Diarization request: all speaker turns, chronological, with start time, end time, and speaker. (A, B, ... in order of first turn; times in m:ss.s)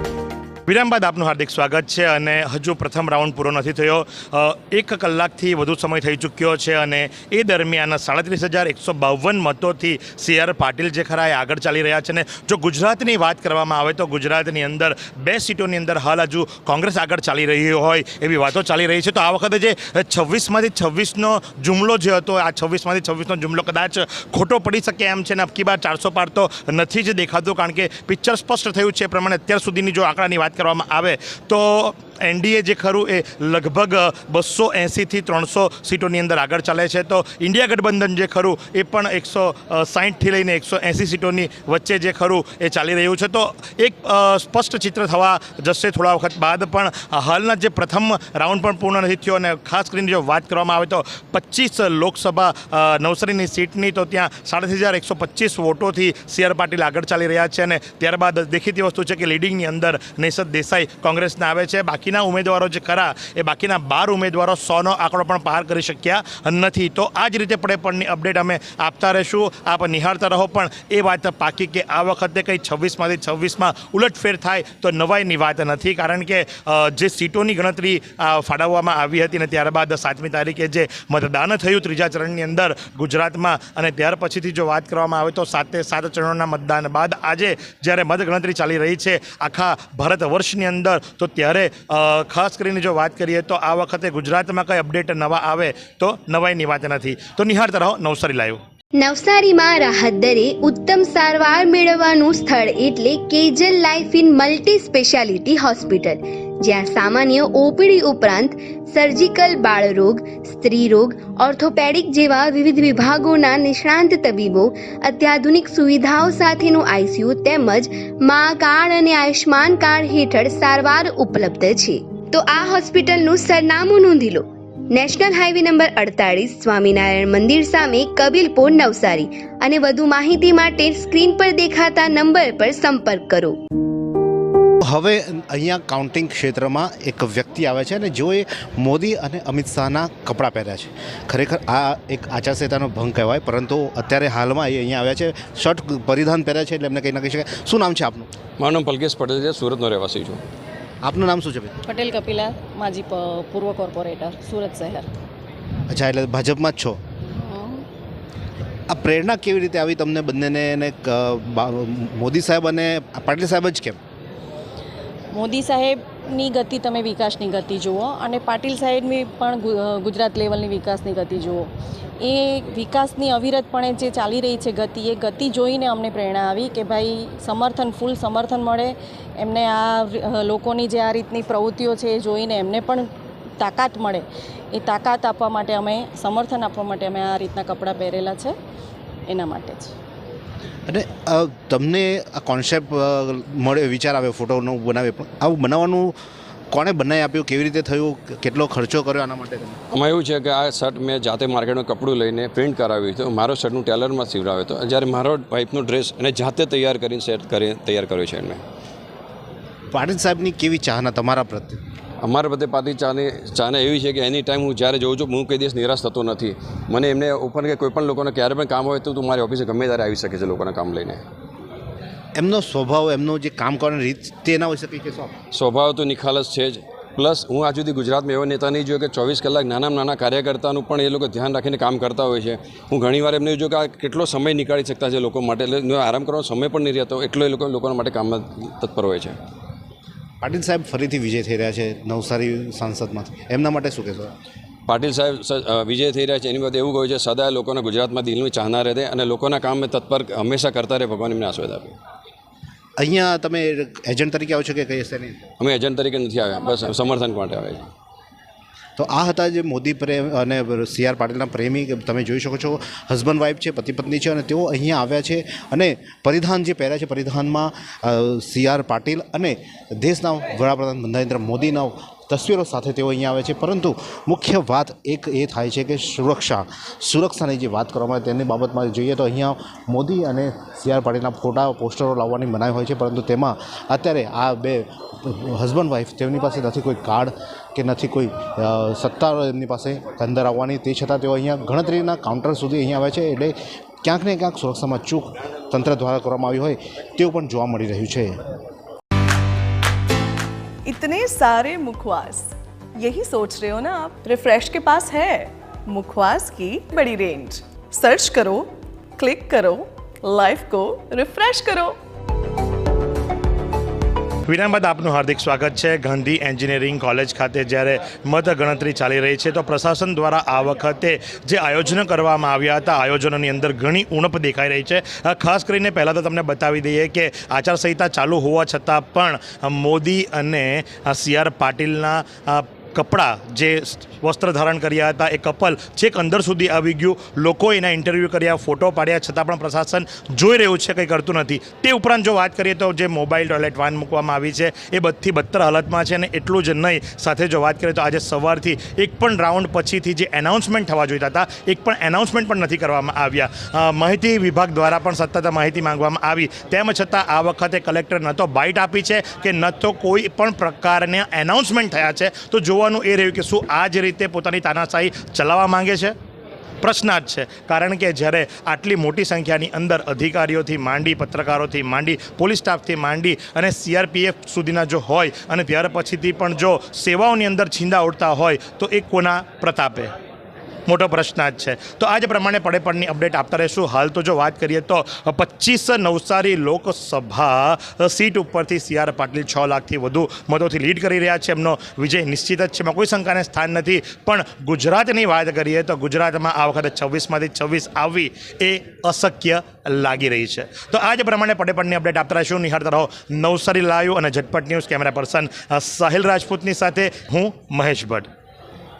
0:00.7-1:38.6 A
1:39.0-2:13.6 B
2:14.9-2:28.3 C
2:28.6-2:30.4 D
2:31.0-2:31.8 C
2:31.8-2:35.1 E
2:35.9-2:37.0 C
2:37.4-2:37.8 E
2:38.9-2:44.0 C
2:45.3-2:51.7 E
2:52.2-3:08.6 E
3:09.3-3:09.9 E
3:10.9-3:16.1 C
3:16.7-3:19.8 C
3:19.9-3:28.6 D
3:29.9-3:31.8 C
3:32.2-3:41.2 D
3:42.4-3:45.3 C
3:45.5-3:59.4 D
4:00.4-4:04.3 C
4:04.9-4:12.0 D
4:13.0-4:15.4 C
4:15.6-4:17.9 D
4:19.0-4:58.4 C
5:00.8-5:12.0 F
5:14.5-6:06.1 A
6:06.8-6:20.1 A
6:20.9-6:48.3 A